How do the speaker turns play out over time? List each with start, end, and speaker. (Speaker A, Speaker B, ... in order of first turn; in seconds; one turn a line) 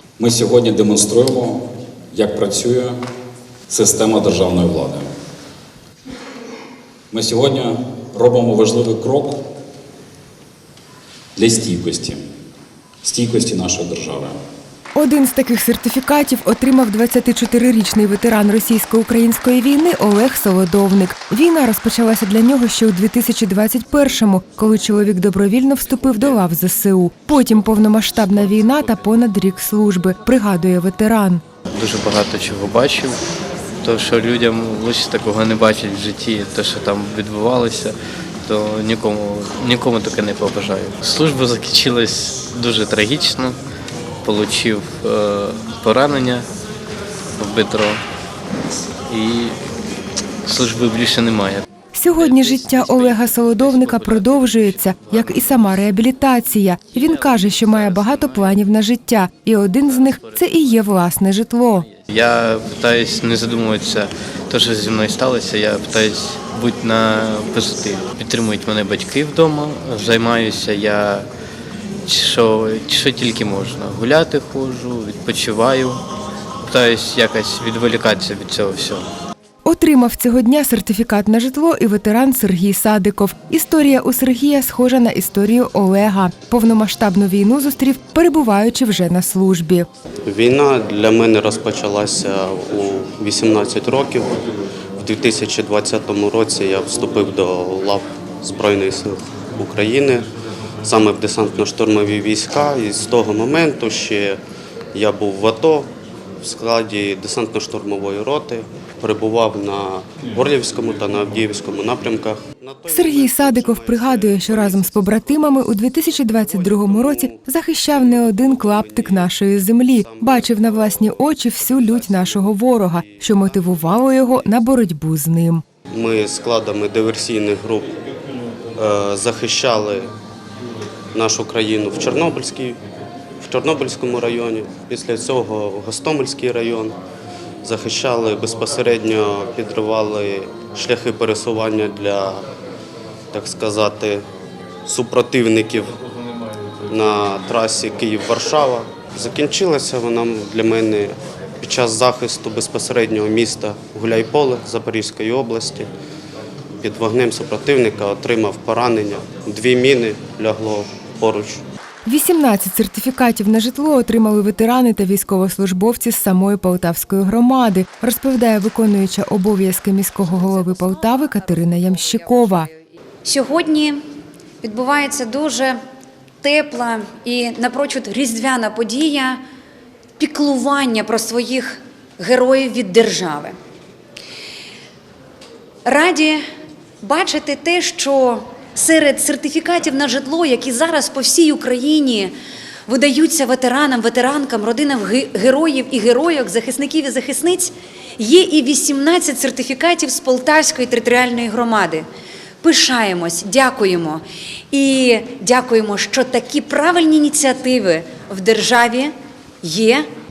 Speaker A: 0.2-3.0
Speaker A: 3.7-5.1
Speaker A: 7.1-9.5
Speaker A: 11.4-12.2
Speaker A: 13.0-14.3
Speaker B: 14.9-31.4
Speaker C: 31.7-33.2
Speaker C: 33.8-43.6
Speaker C: 44.2-46.5
Speaker C: 47.4-48.0
Speaker C: 49.1-49.5
Speaker C: 50.4-55.8
Speaker B: 51.9-61.9
Speaker C: 56.9-58.6
Speaker C: 59.8-60.9
Speaker C: 61.7-71.3
Speaker C: 72.0-76.0
Speaker C: 76.6-79.1
Speaker B: 79.6-89.9
Speaker D: 90.2-94.4
Speaker D: 95.0-100.3
Speaker D: 100.8-104.4
Speaker D: 104.9-105.9
Speaker D: 106.4-119.3
Speaker B: 112.9-125.6
Speaker D: 119.9-124.4
Speaker D: 125.9-128.0
Speaker D: 128.8-130.1
Speaker D: 131.1-132.8
Speaker D: 133.4-137.0
Speaker D: 137.6-142.4
Speaker D: 143.3-144.2
Speaker D: 144.8-145.9
Speaker D: 146.9-155.9
Speaker D: 156.8-161.6
Speaker B: 162.1-172.7
Speaker E: 170.2-174.0
Speaker E: 174.6-175.8
Speaker E: 176.4-179.4
Speaker E: 180.2-183.6
Speaker E: 185.8-186.4
Speaker E: 187.0-192.3
Speaker E: 192.9-202.1
Speaker E: 202.6-210.1